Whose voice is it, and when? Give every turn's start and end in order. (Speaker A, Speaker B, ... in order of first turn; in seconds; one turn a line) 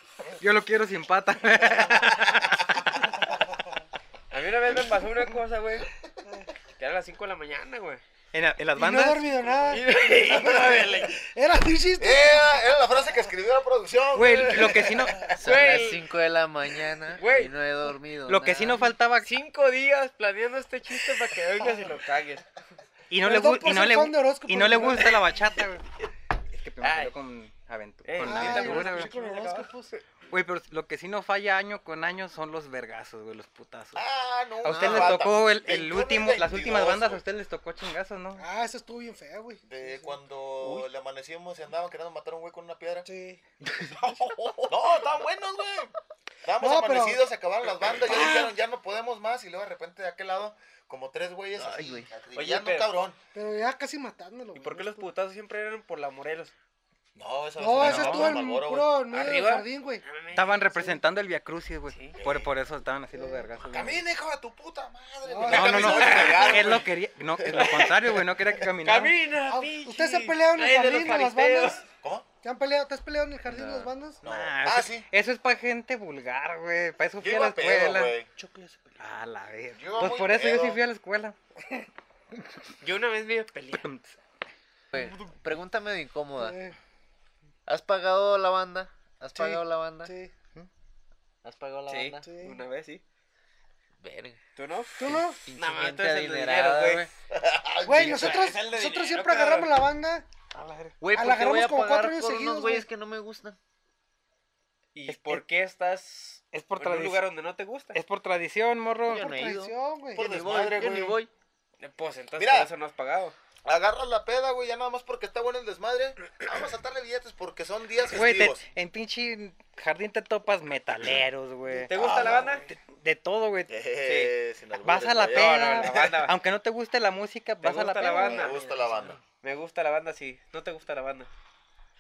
Speaker A: 0.4-2.8
Speaker B: 4.3-5.9
Speaker B: 6.8-8.0
Speaker A: 8.3-9.2
Speaker C: 8.8-12.7
Speaker B: 9.6-11.2
Speaker D: 12.0-15.3
Speaker A: 14.1-15.2
Speaker E: 15.3-18.9
Speaker B: 15.4-16.1
Speaker B: 17.1-17.5
Speaker A: 18.2-19.3
Speaker B: 19.2-22.4
Speaker A: 23.1-25.8
Speaker C: 23.2-25.2
Speaker A: 26.5-29.1
Speaker B: 26.8-27.1
Speaker B: 28.1-30.0
Speaker C: 28.2-29.9
Speaker A: 30.3-34.0
Speaker D: 34.0-37.2
Speaker A: 34.6-38.5
Speaker E: 34.7-35.2
Speaker C: 38.4-40.2
Speaker D: 39.6-43.1
Speaker B: 40.6-40.9
Speaker C: 43.0-43.4
Speaker A: 43.6-44.0
Speaker D: 44.6-45.9
Speaker D: 46.4-53.2
Speaker C: 46.6-47.2
Speaker C: 48.0-48.5
Speaker E: 51.6-52.1
Speaker B: 52.4-52.9
Speaker C: 53.3-55.1
Speaker B: 54.5-56.5
Speaker D: 57.1-58.9
Speaker C: 57.6-60.0
Speaker A: 57.8-58.4
Speaker B: 59.1-60.5
Speaker A: 60.3-64.0
Speaker C: 60.7-61.0
Speaker B: 61.9-62.2
Speaker D: 62.2-62.5
Speaker C: 63.1-63.5
Speaker D: 63.7-66.9
Speaker C: 65.2-66.8
Speaker A: 65.5-69.2
Speaker B: 65.9-66.5
Speaker B: 67.5-68.0
Speaker B: 68.8-71.8
Speaker C: 69.5-71.8
Speaker C: 72.4-74.2
Speaker E: 73.5-73.9
Speaker D: 74.2-75.1
Speaker A: 74.2-78.1
Speaker D: 77.2-78.3
Speaker C: 78.4-79.0
Speaker A: 79.0-81.3
Speaker D: 79.7-80.8
Speaker B: 82.8-83.8
Speaker A: 83.8-84.2
Speaker E: 84.9-86.6
Speaker B: 84.9-85.2
Speaker C: 86.4-86.8
Speaker E: 87.7-90.1
Speaker C: 89.3-90.3
Speaker E: 91.4-92.2
Speaker B: 91.9-93.0
Speaker C: 92.2-92.6
Speaker E: 94.0-94.4
Speaker B: 94.5-97.1
Speaker C: 95.0-95.4
Speaker E: 95.0-97.1
Speaker D: 97.3-98.5
Speaker C: 97.8-100.2
Speaker B: 98.1-99.7
Speaker A: 100.5-100.9
Speaker E: 101.0-103.6
Speaker C: 101.1-102.9
Speaker B: 105.0-108.0
Speaker A: 105.1-105.4
Speaker A: 106.5-107.2
Speaker A: 107.9-109.2
Speaker E: 109.0-111.3
Speaker C: 109.1-110.3
Speaker D: 110.2-111.2
Speaker B: 111.8-113.3
Speaker D: 112.4-112.7
Speaker D: 113.6-118.6
Speaker A: 118.1-122.0
Speaker B: 121.9-122.7
Speaker D: 121.9-122.6
Speaker A: 122.7-123.7
Speaker D: 123.7-125.9
Speaker B: 124.0-124.3
Speaker A: 124.8-128.5
Speaker B: 125.3-126.4
Speaker B: 127.6-128.6
Speaker D: 128.3-129.2
Speaker E: 128.5-129.2
Speaker B: 129.4-131.3